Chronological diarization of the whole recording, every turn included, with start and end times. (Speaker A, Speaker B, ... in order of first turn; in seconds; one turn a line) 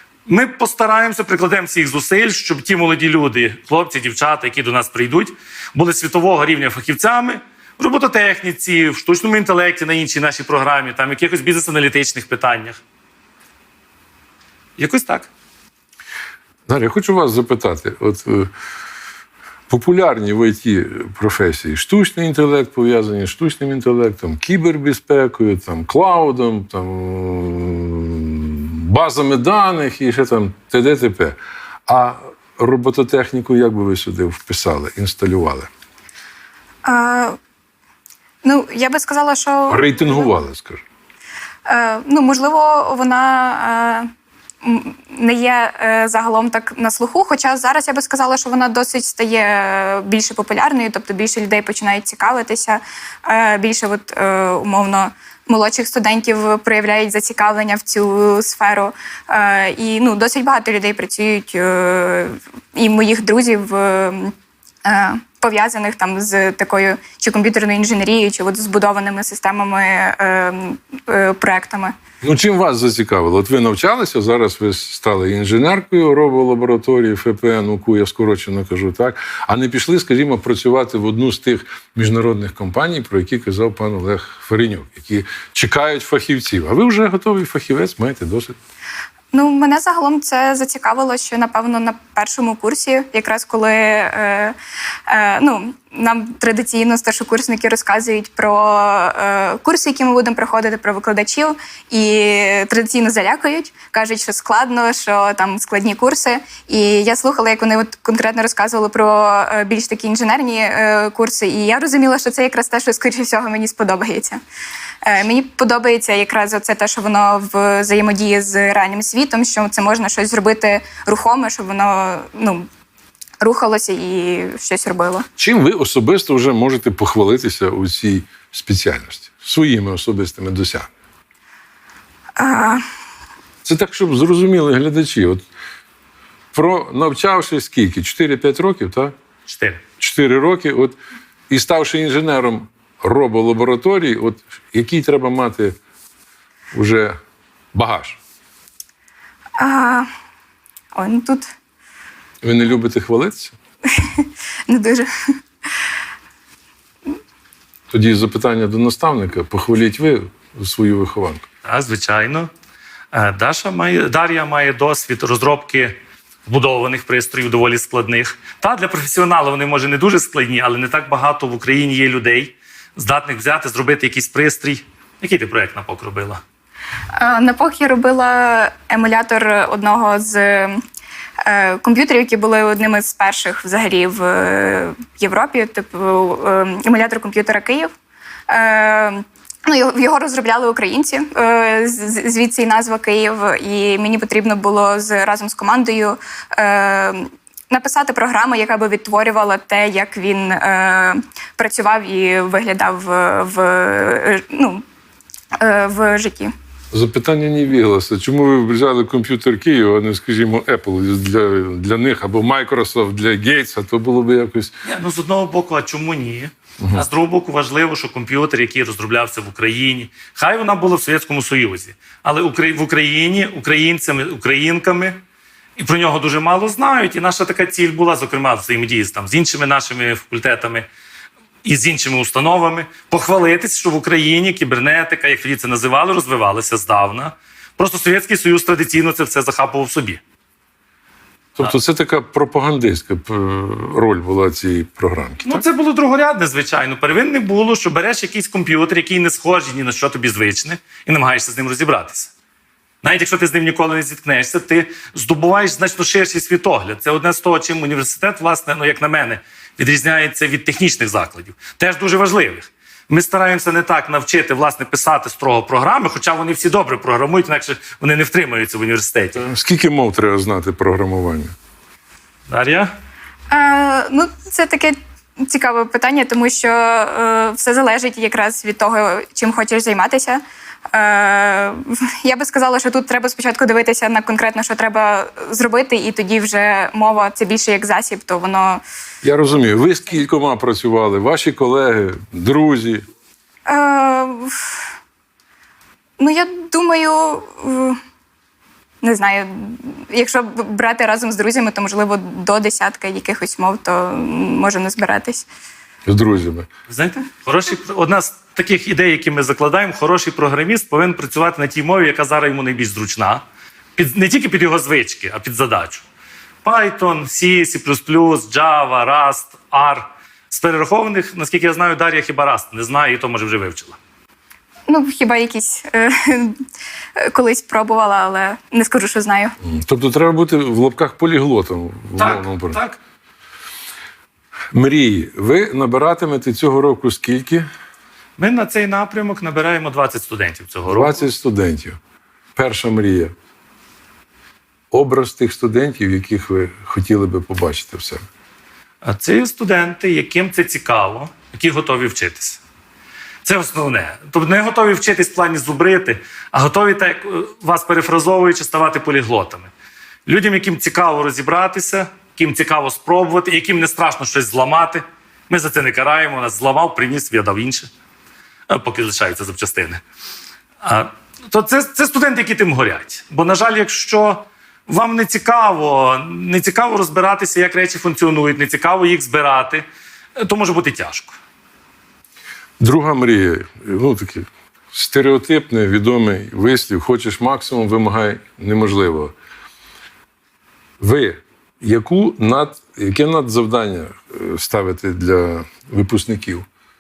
Speaker A: 0.3-12.8
Speaker A: 14.8-15.3
Speaker B: 16.7-18.5
Speaker B: 19.7-35.7
Speaker C: 36.9-37.4
Speaker C: 38.4-40.3
Speaker B: 39.7-40.8
Speaker C: 41.7-44.1
Speaker C: 44.6-72.0
Speaker B: 72.2-88.6
Speaker C: 89.3-94.6
Speaker C: 95.1-114.4
Speaker C: 115.0-122.7
Speaker C: 123.4-125.3
Speaker B: 125.4-130.9
Speaker C: 132.4-132.8
Speaker B: 133.7-135.4
Speaker B: 136.5-139.1
Speaker A: 139.5-139.8
Speaker B: 140.0-141.0
Speaker B: 141.5-145.8
Speaker B: 146.7-147.2
Speaker B: 147.7-148.2
Speaker C: 149.6-150.1
Speaker C: 150.9-151.5
Speaker B: 152.4-153.6
Speaker C: 154.0-155.1
Speaker B: 157.9-161.5
Speaker A: 161.6-162.5
Speaker A: 163.1-176.4
Speaker C: 177.2-180.8
Speaker C: 181.4-187.9
Speaker C: 188.5-204.8
Speaker C: 205.6-206.5
Speaker B: 206.9-214.7
Speaker A: 214.8-225.2
Speaker B: 216.8-217.1
Speaker A: 225.8-230.9
Speaker A: 231.6-240.2
Speaker B: 241.6-245.6
Speaker A: 245.4-252.3
Speaker A: 253.0-269.4
Speaker B: 269.4-271.5
Speaker A: 272.5-272.9
Speaker C: 273.5-288.8
Speaker B: 289.2-293.1
Speaker C: 293.7-294.7
Speaker C: 296.2-298.0
Speaker C: 299.0-305.5
Speaker B: 306.1-306.7
Speaker A: 306.9-313.4
Speaker A: 314.0-316.0
Speaker A: 316.6-324.0
Speaker C: 324.9-326.6
Speaker C: 327.2-329.6
Speaker B: 329.6-332.8
Speaker A: 332.2-333.0
Speaker B: 334.7-337.7
Speaker A: 338.4-341.2
Speaker B: 340.9-342.0
Speaker B: 342.6-343.3
Speaker B: 344.9-348.2
Speaker A: 349.0-352.6
Speaker A: 353.4-359.7
Speaker A: 360.3-367.9
Speaker A: 368.7-370.0
Speaker A: 370.8-379.9
Speaker A: 380.4-381.4
Speaker B: 382.8-389.3
Speaker B: 391.0-396.7